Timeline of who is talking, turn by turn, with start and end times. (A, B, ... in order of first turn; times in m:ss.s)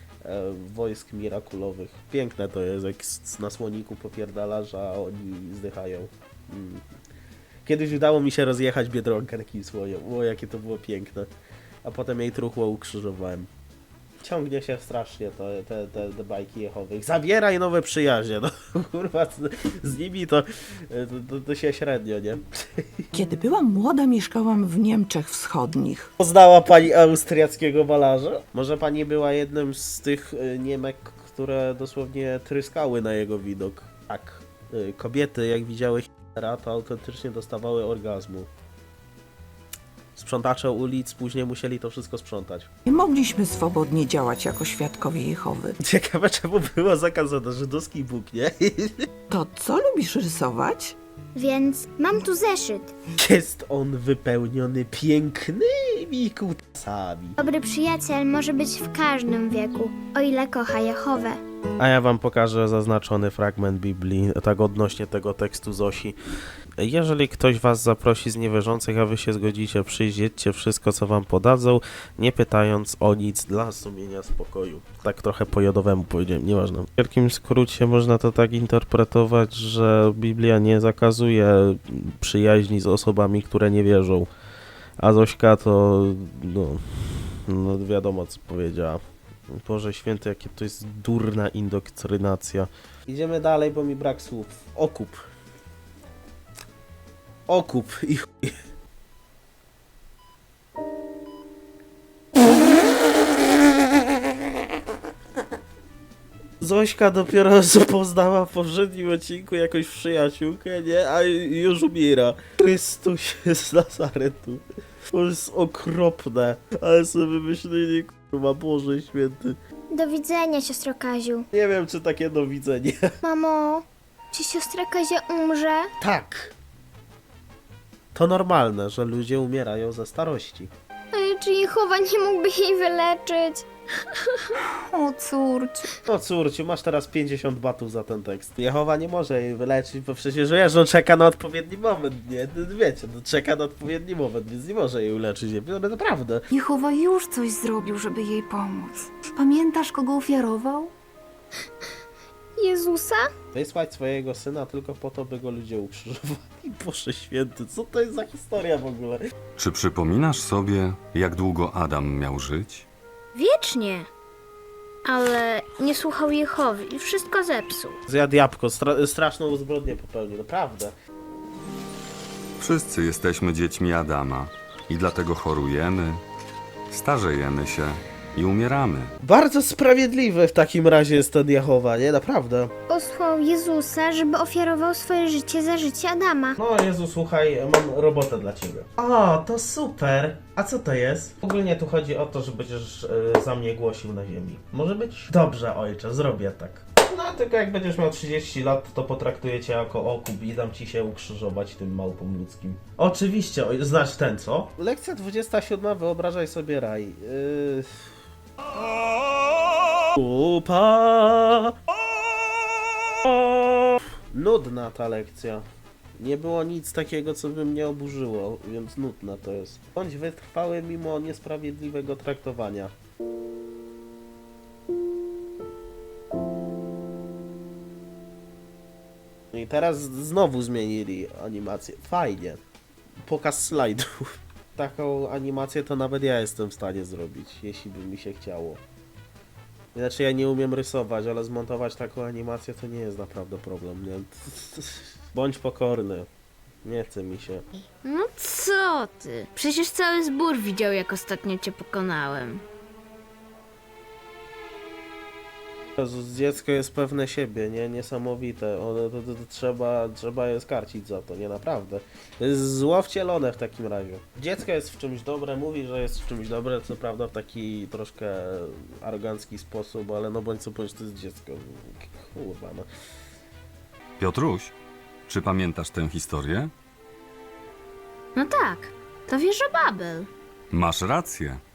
0:00.2-0:06.8 A
0:07.6-0:11.3 A
0:11.8-0:13.5 A
0:14.2-0:22.9 A
0:23.1-0:26.1 B
0:26.2-0:38.5 A
0:40.2-0:42.7 A
0:42.8-0:45.8 B
0:45.8-0:49.0 A
0:49.3-0:51.0 B
0:51.3-0:52.9 C
0:53.1-0:57.4 A
0:57.4-1:01.4 C
1:01.8-1:06.2 A
1:06.8-1:24.3 A
1:25.0-1:35.2 A
1:37.5-1:38.5 A
1:46.6-1:59.6 A
1:59.9-2:01.4 C
2:01.5-2:03.0 A
2:03.2-2:05.9 C
2:06.0-2:06.5 A
2:08.1-2:10.7 A
2:11.1-2:13.6 C
2:14.9-2:15.9 D
2:16.0-2:26.4 A
2:26.5-2:30.9 D
2:32.6-2:33.3 C
2:33.5-2:39.2 A
2:39.6-2:42.8 E
2:43.3-2:44.1 F
2:45.0-2:48.0 F
2:48.1-2:50.9 A
2:52.6-2:56.2 E
2:56.9-2:59.1 E
2:59.2-3:02.7 A
3:02.9-3:06.5 C
3:06.6-3:27.9 A
3:30.1-3:31.7 A
3:33.2-3:35.6 A
3:36.2-3:42.9 A
3:49.5-3:52.6 A
3:53.2-3:54.1 A
3:54.7-3:58.8 A
3:59.9-4:06.3 A
4:06.8-4:07.6 A
4:08.0-4:12.6 F
4:16.0-4:32.9 A
4:34.2-4:34.7 E
4:35.3-4:36.7 E
4:38.3-4:40.3 F
4:40.7-4:41.6 E